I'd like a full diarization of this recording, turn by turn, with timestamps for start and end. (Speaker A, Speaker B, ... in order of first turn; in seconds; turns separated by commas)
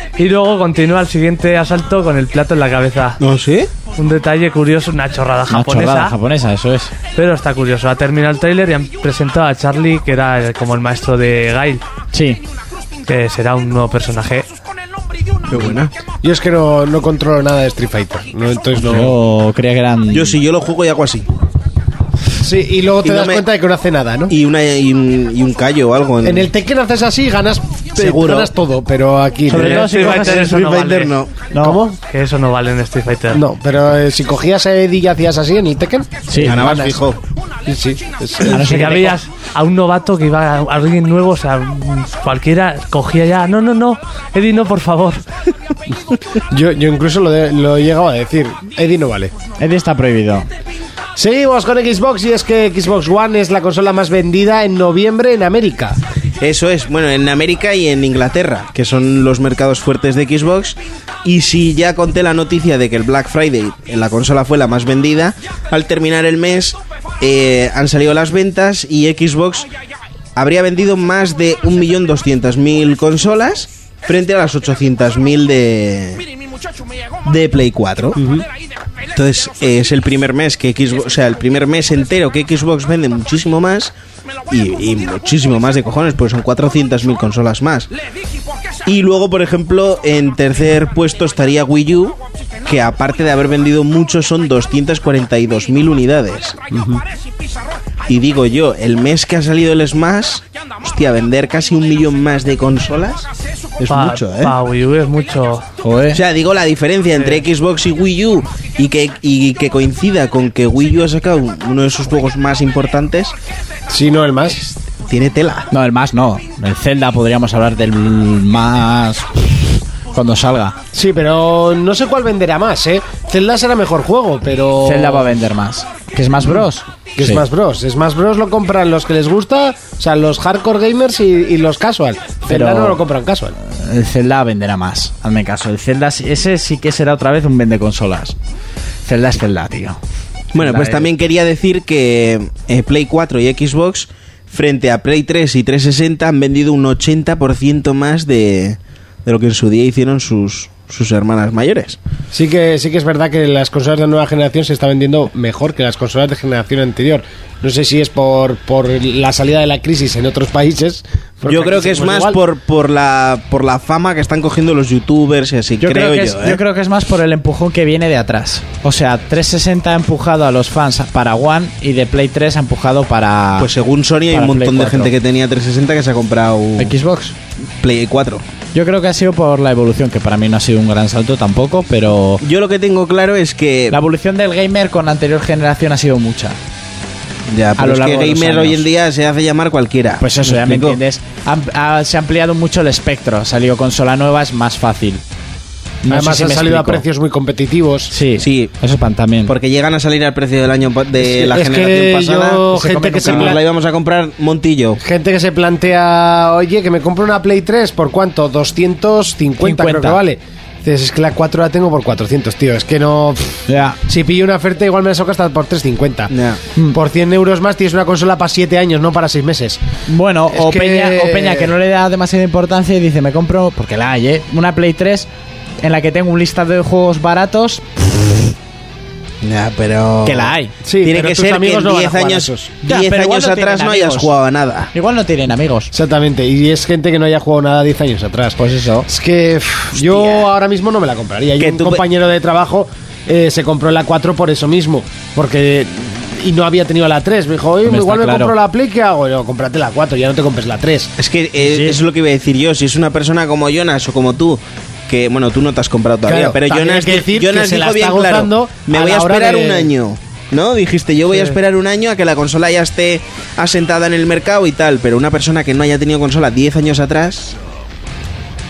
Speaker A: 0.2-3.2, Speaker B: 3.2-3.7, Speaker A: 4.0-6.2, Speaker C: 5.5-6.9, Speaker A: 7.1-11.8, Speaker C: 12.1-12.4, Speaker A: 13.1-14.5, Speaker B: 15.5-15.9, Speaker D: 16.2-19.2, Speaker C: 18.8-20.4, Speaker B: 20.1-21.3, Speaker D: 22.4-24.3, Speaker B: 23.0-23.4, Speaker B: 24.3-26.5, Speaker D: 26.2-30.0, Speaker B: 28.0-28.5, Speaker C: 29.5-30.6, Speaker A: 29.6-31.2, Speaker B: 29.9-31.5, Speaker C: 31.5-31.8, Speaker D: 31.6-32.0, Speaker A: 32.1-33.4, Speaker D: 33.3-36.9, Speaker C: 36.3-37.0, Speaker B: 36.4-37.2, Speaker D: 37.7-39.1, Speaker C: 38.5-39.2, Speaker A: 38.6-45.2, Speaker D: 46.5-49.3, Speaker C: 49.6-50.5, Speaker D: 51.2-56.0, Speaker B: 56.4-69.7, Speaker B: 70.4-76.2, Speaker B: 77.2-78.2, Speaker D: 78.2-78.5, Speaker B: 79.1-83.9, Speaker B: 84.5-87.9, Speaker B: 88.8-96.6, Speaker B: 98.1-103.3, Speaker B: 103.8-104.5, Speaker A: 103.9-105.7, Speaker C: 105.8-106.2, Speaker B: 106.1-113.3, Speaker D: 113.9-114.6, Speaker B: 115.0-115.7, Speaker C: 115.7-120.8, Speaker D: 120.9-125.4, Speaker C: 124.8-127.5, Speaker D: 127.2-133.6, Speaker C: 132.5-133.0, Speaker C: 133.6-138.4, Speaker C: 139.1-140.0, Speaker B: 140.5-152.0, Speaker C: 140.6-141.1, Speaker D: 152.3-162.4, Speaker B: 161.5-166.6, Speaker C: 165.8-173.7, Speaker B: 173.6-176.9, Speaker C: 174.3-175.1, Speaker C: 176.8-177.3, Speaker B: 177.8-178.4, Speaker C: 178.7-182.4, Speaker B: 182.4-184.0, Speaker C: 183.9-186.6, Speaker B: 187.5-191.0, Speaker C: 187.8-188.9, Speaker C: 190.2-195.2, Speaker C: 196.0-197.0, Speaker D: 196.1-198.1, Speaker C: 198.1-199.5, Speaker B: 198.4-198.7, Speaker B: 199.5-205.0, Speaker D: 201.2-203.6, Speaker C: 202.7-203.6, Speaker D: 205.0-216.3, Speaker C: 209.6-210.2, Speaker C: 213.7-214.0, Speaker B: 216.3-216.6, Speaker D: 216.9-219.8, Speaker C: 220.1-225.3, Speaker D: 220.5-221.7, Speaker C: 225.8-228.5, Speaker B: 229.4-230.5, Speaker C: 230.2-230.7, Speaker D: 230.8-232.7, Speaker B: 231.0-234.9, Speaker C: 232.8-234.3, Speaker C: 234.9-235.9, Speaker D: 235.9-251.1, Speaker C: 238.6-239.1, Speaker B: 240.0-240.3, Speaker B: 241.6-242.0, Speaker C: 247.8-248.5, Speaker B: 251.2-267.6, Speaker C: 251.6-252.0, Speaker D: 256.3-259.9